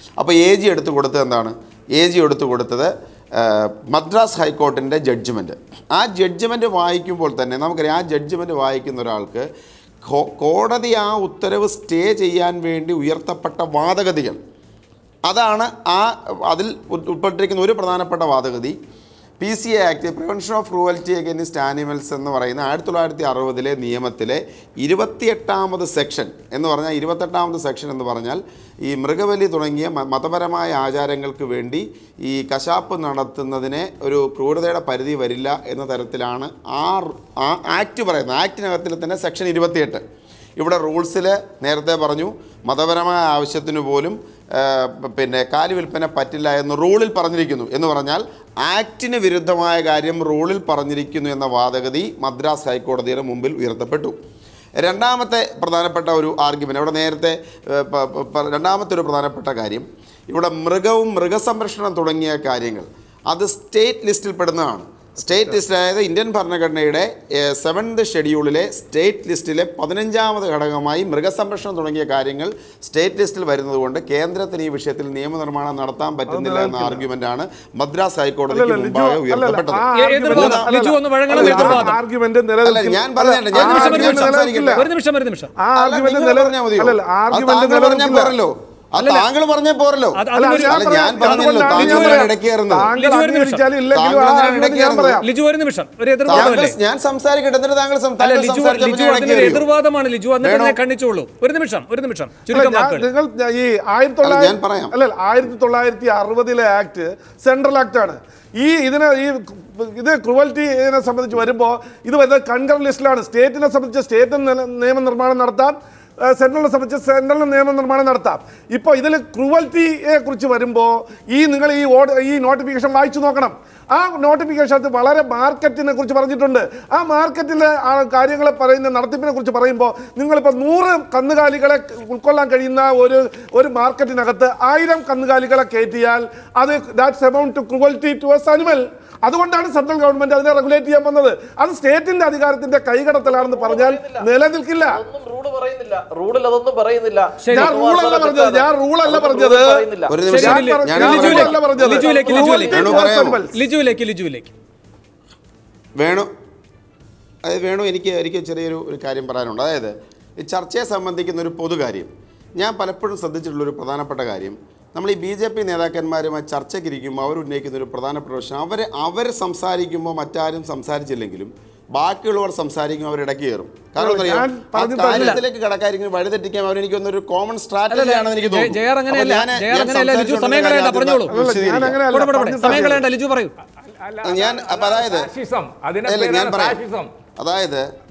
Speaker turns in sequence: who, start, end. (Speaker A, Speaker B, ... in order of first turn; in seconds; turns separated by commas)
Speaker A: 0.2-9.5, Speaker A: 10.0-14.4, Speaker A: 15.3-18.8, Speaker A: 19.4-40.0, Speaker A: 40.6-54.1, Speaker A: 54.8-80.7, Speaker B: 76.3-77.0, Speaker B: 78.5-84.9, Speaker C: 79.9-82.0, Speaker A: 81.3-81.9, Speaker A: 82.6-84.8, Speaker C: 83.5-85.5, Speaker B: 85.6-88.3, Speaker A: 85.8-92.9, Speaker C: 89.0-89.3, Speaker C: 90.1-92.3, Speaker B: 90.3-95.3, Speaker C: 92.9-93.6, Speaker A: 93.9-95.2, Speaker C: 95.2-96.8, Speaker A: 96.3-99.7, Speaker C: 98.2-103.1, Speaker A: 100.4-100.8, Speaker B: 102.5-145.0, Speaker A: 104.2-104.9, Speaker D: 143.2-144.2, Speaker D: 144.8-150.5, Speaker C: 147.4-147.7, Speaker B: 147.5-153.6, Speaker A: 150.1-151.5, Speaker C: 150.3-154.5, Speaker D: 151.3-152.9, Speaker A: 152.7-153.4, Speaker A: 156.0-156.3, Speaker A: 157.4-182.0, Speaker B: 173.9-175.4, Speaker C: 175.1-175.4, Speaker C: 177.9-181.3, Speaker B: 181.3-183.1, Speaker C: 182.1-183.5, Speaker E: 183.8-187.1, Speaker A: 184.2-185.3, Speaker A: 186.1-186.8, Speaker A: 187.4-187.8